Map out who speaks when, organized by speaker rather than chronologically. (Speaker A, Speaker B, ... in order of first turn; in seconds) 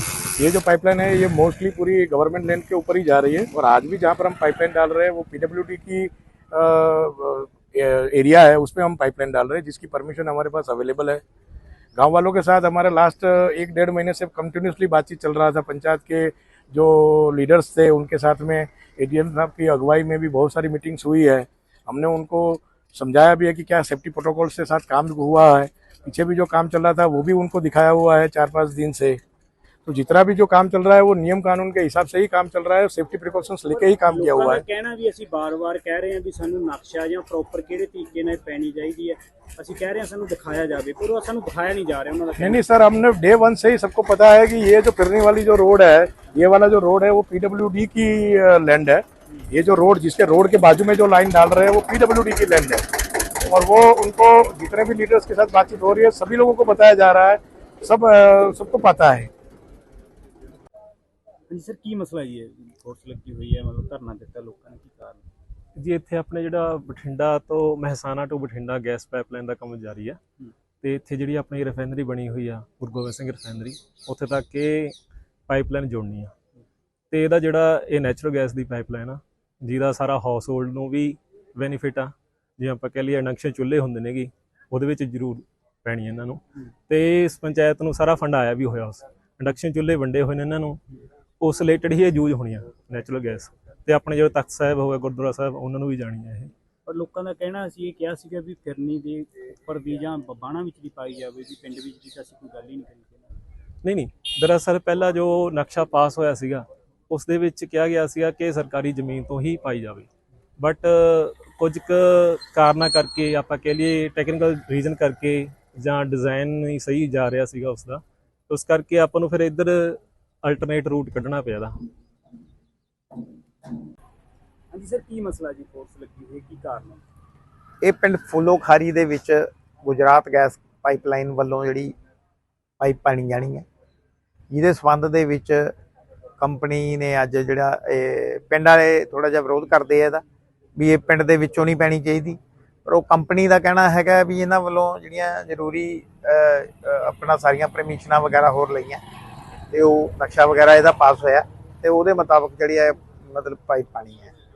Speaker A: 0.4-11.2, 11.9-29.2, 29.9-34.6, 42.4-52.8, 53.4-59.3
Speaker B: 33.7-42.7, 61.5-65.2, 96.9-103.3, 124.7-127.0
Speaker C: 65.8-70.2, 70.8-75.0, 75.5-76.3, 77.1-90.8, 91.4-96.5, 103.8-110.1, 110.6-121.7
Speaker D: 127.8-131.9, 132.8-133.6, 134.5-135.7, 136.4-140.2, 140.8-149.0, 149.7-154.3